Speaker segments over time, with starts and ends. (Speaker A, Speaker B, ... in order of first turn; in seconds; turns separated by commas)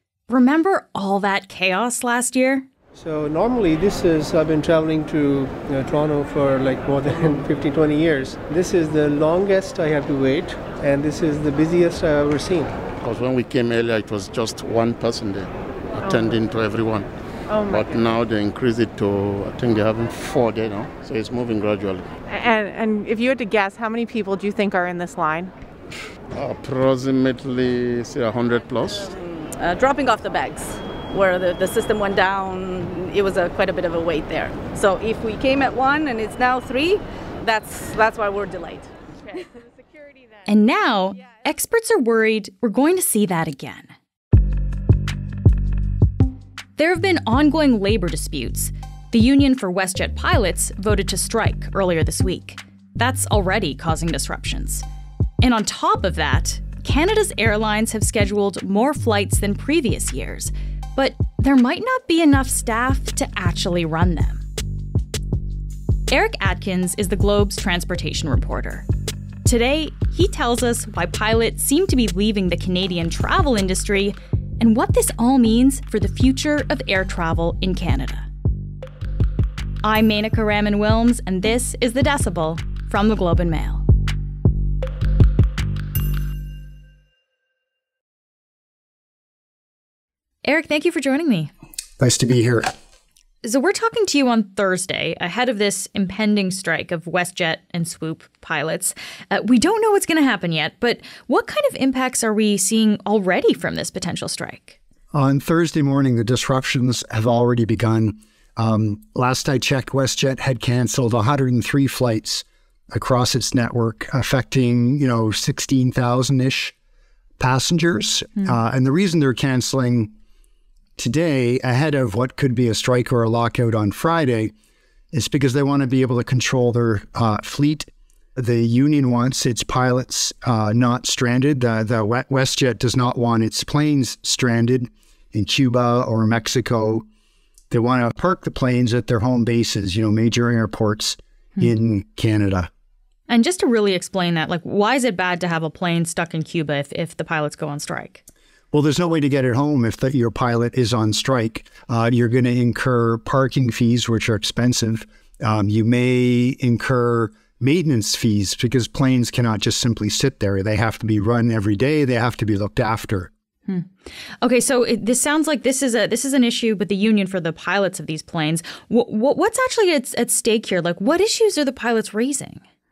Speaker A: 0.3-2.6, Speaker B: 2.9-12.7, Speaker C: 13.0-15.5, Speaker C: 16.0-17.1, Speaker D: 17.5-17.9, Speaker C: 17.7-22.1, Speaker D: 22.3-25.5, Speaker C: 26.3-29.1, Speaker E: 29.1-39.5, Speaker A: 40.5-43.9, Speaker A: 46.8-54.9, Speaker A: 55.4-64.4, Speaker A: 66.1-68.8, Speaker A: 69.4-78.3, Speaker A: 79.8-83.8, Speaker A: 90.4-91.5, Speaker F: 92.0-92.7, Speaker A: 93.4-104.8, Speaker F: 105.1-116.7, Speaker F: 117.4-120.1, Speaker F: 121.0-124.5, Speaker F: 125.1-137.0, Speaker F: 137.7-142.7, Speaker A: 143.3-148.2, Speaker F: 148.7-163.3, Speaker A: 164.4-172.6